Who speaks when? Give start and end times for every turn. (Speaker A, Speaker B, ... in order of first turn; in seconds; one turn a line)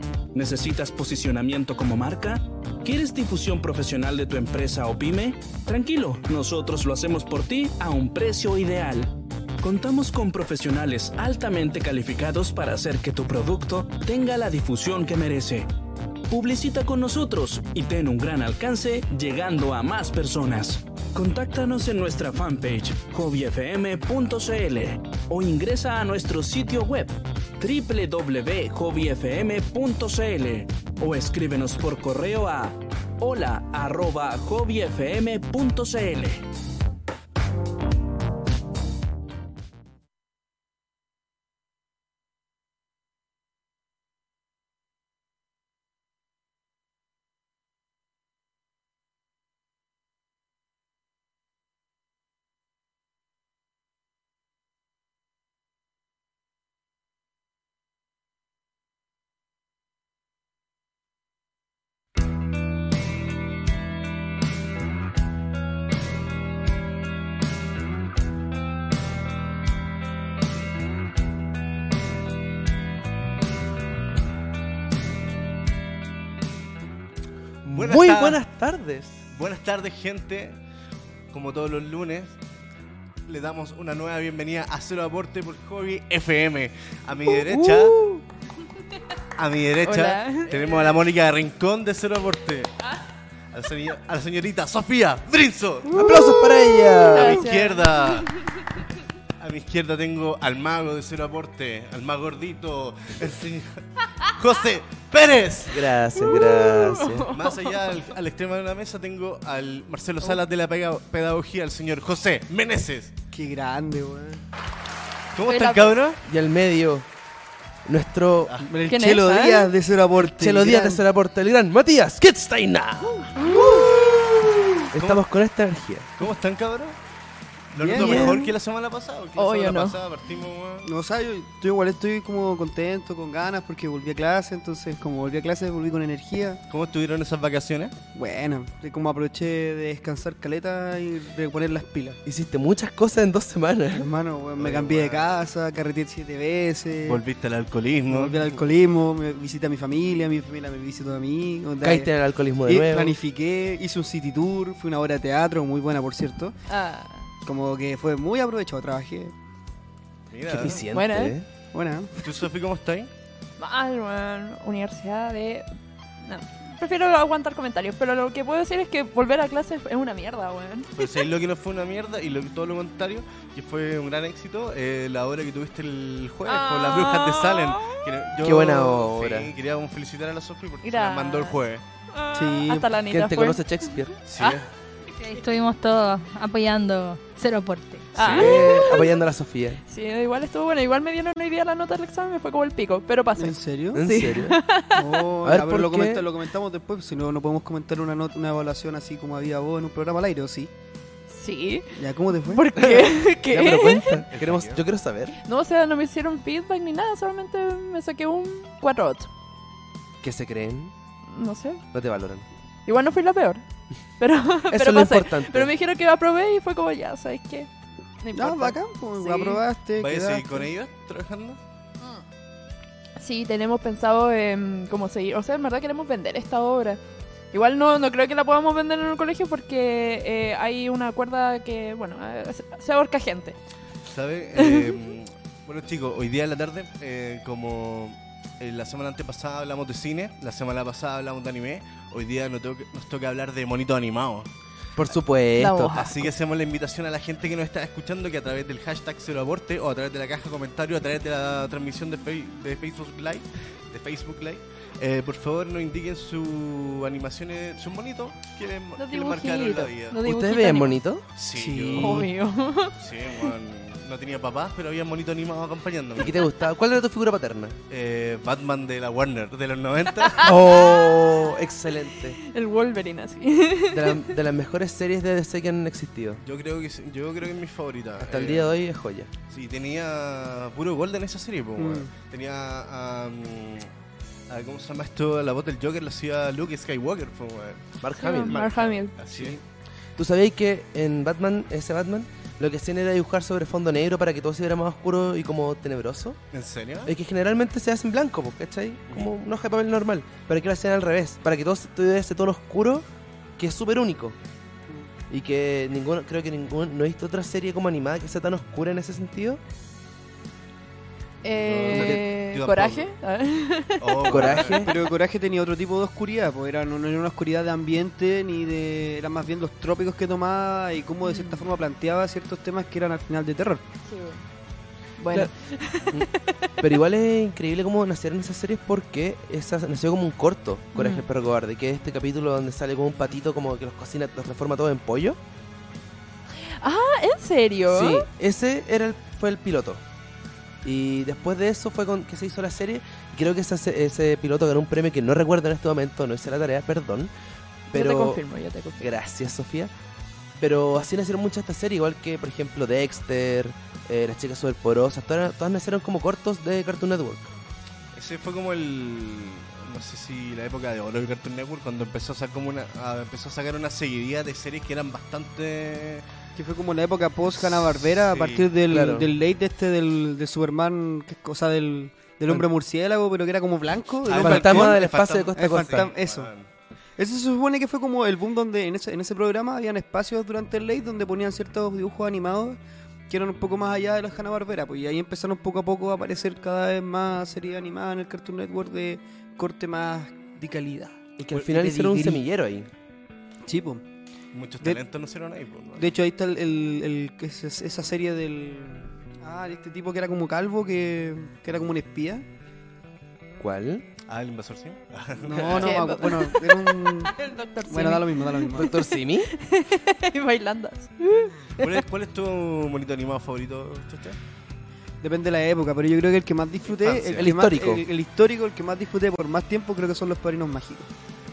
Speaker A: 0.3-15.7
Speaker A: 16.3-36.5
Speaker B: 77.7-79.2
Speaker C: 77.7-78.4
Speaker C: 79.3-80.6
Speaker C: 81.3-82.4
Speaker C: 83.3-88.0
Speaker B: 87.5-88.0
Speaker C: 89.4-92.8
Speaker D: 89.8-90.9
Speaker C: 93.5-96.5
Speaker E: 95.9-97.0
Speaker B: 95.9-97.4
Speaker C: 97.0-98.3
Speaker D: 97.1-98.4
Speaker C: 99.4-106.0
Speaker B: 105.7-107.3
Speaker D: 106.2-107.8
Speaker C: 107.3-113.1
Speaker E: 113.3-114.4
Speaker C: 115.3-116.2
Speaker D: 115.5-116.0
Speaker B: 116.2-117.1
Speaker B: 117.9-118.7
Speaker C: 118.5-118.7
Speaker E: 118.7-121.0
Speaker D: 118.9-119.7
Speaker B: 120.2-123.5
Speaker E: 123.4-124.1
Speaker B: 124.9-126.2
Speaker C: 124.9-125.2
Speaker C: 126.2-127.0
Speaker C: 127.7-130.9
Speaker E: 127.8-128.4
Speaker B: 127.9-128.6
Speaker D: 129.4-130.0
Speaker E: 130.8-136.6
Speaker C: 136.7-137.9
Speaker E: 138.2-142.2
Speaker B: 142.2-144.1
Speaker E: 143.9-147.2
Speaker C: 144.6-145.4
Speaker C: 147.1-148.6
Speaker E: 148.1-152.1
Speaker B: 151.8-153.2
Speaker E: 152.7-156.6
Speaker D: 156.7-157.3
Speaker E: 157.4-159.3
Speaker C: 160.3-160.9
Speaker B: 160.5-161.5
Speaker D: 160.9-161.3
Speaker E: 161.7-162.1
Speaker C: 162.2-163.1
Speaker D: 163.6-165.7
Speaker D: 166.2-171.2
Speaker C: 171.0-181.8
Speaker D: 176.4-178.0
Speaker B: 178.4-179.5
Speaker D: 180.8-181.6
Speaker D: 182.1-183.6
Speaker E: 182.3-182.9
Speaker B: 183.1-184.2
Speaker C: 184.3-184.7
Speaker F: 185.2-188.1
Speaker C: 188.1-188.7
Speaker D: 188.2-189.2
Speaker B: 188.2-189.8
Speaker D: 189.9-195.2
Speaker E: 193.4-194.0
Speaker B: 193.9-194.6
Speaker E: 194.9-200.7
Speaker B: 195.4-196.3
Speaker D: 201.3-204.2
Speaker E: 201.9-202.7
Speaker B: 202.8-205.4
Speaker C: 204.3-204.8
Speaker D: 205.4-209.3
Speaker B: 210.2-210.9
Speaker D: 211.3-211.8
Speaker B: 211.9-212.5
Speaker D: 212.9-213.6
Speaker D: 214.2-217.7
Speaker B: 214.7-215.7
Speaker D: 218.2-219.6
Speaker E: 218.4-220.7
Speaker C: 220.0-221.6
Speaker D: 223.2-227.0
Speaker D: 227.5-233.6
Speaker C: 234.1-244.5
Speaker D: 234.6-234.9
Speaker B: 245.0-246.3
Speaker D: 245.6-246.3
Speaker C: 246.0-260.2
Speaker D: 259.0-261.0
Speaker B: 260.2-261.3
Speaker C: 261.4-262.3
Speaker E: 261.5-262.3
Speaker D: 262.0-263.0
Speaker C: 262.9-266.4
Speaker B: 266.2-267.8
Speaker C: 267.9-270.6
Speaker B: 270.4-272.4
Speaker D: 270.9-271.3
Speaker D: 272.4-274.4
Speaker B: 273.9-276.4
Speaker C: 276.4-278.8
Speaker B: 278.2-279.3
Speaker C: 279.5-283.9
Speaker E: 281.8-282.1
Speaker C: 284.5-289.6
Speaker B: 288.0-288.6
Speaker D: 288.2-289.1
Speaker B: 289.3-289.6
Speaker B: 290.2-296.4
Speaker C: 296.5-297.1
Speaker B: 297.1-303.1
Speaker B: 303.6-304.4
Speaker B: 305.3-309.6
Speaker D: 311.4-314.6
Speaker C: 311.5-313.1
Speaker B: 311.9-312.2
Speaker C: 314.0-315.0
Speaker B: 314.3-315.0
Speaker E: 314.8-323.8
Speaker D: 321.2-321.6
Speaker D: 324.1-324.4
Speaker D: 325.2-326.8
Speaker B: 326.8-335.4
Speaker D: 330.9-331.2
Speaker D: 336.6-338.3
Speaker B: 337.9-340.0
Speaker B: 340.8-347.3
Speaker B: 347.9-348.4
Speaker D: 347.9-349.1
Speaker B: 349.0-349.9
Speaker B: 350.6-357.5
Speaker C: 358.1-366.3
Speaker E: 366.6-375.0
Speaker C: 367.5-368.7
Speaker B: 368.9-369.3
Speaker C: 374.3-376.7
Speaker B: 374.3-376.1
Speaker E: 375.6-376.5
Speaker E: 377.2-382.8
Speaker E: 383.3-392.4
Speaker B: 391.4-392.9
Speaker E: 393.7-394.0
Speaker C: 394.5-396.1
Speaker E: 396.0-402.4
Speaker B: 403.6-404.1
Speaker C: 404.3-406.1
Speaker E: 405.4-407.4
Speaker D: 405.7-412.0
Speaker E: 407.9-408.9
Speaker B: 408.7-409.5
Speaker C: 411.8-414.4
Speaker E: 415.2-421.1
Speaker C: 416.9-417.5
Speaker B: 417.4-418.1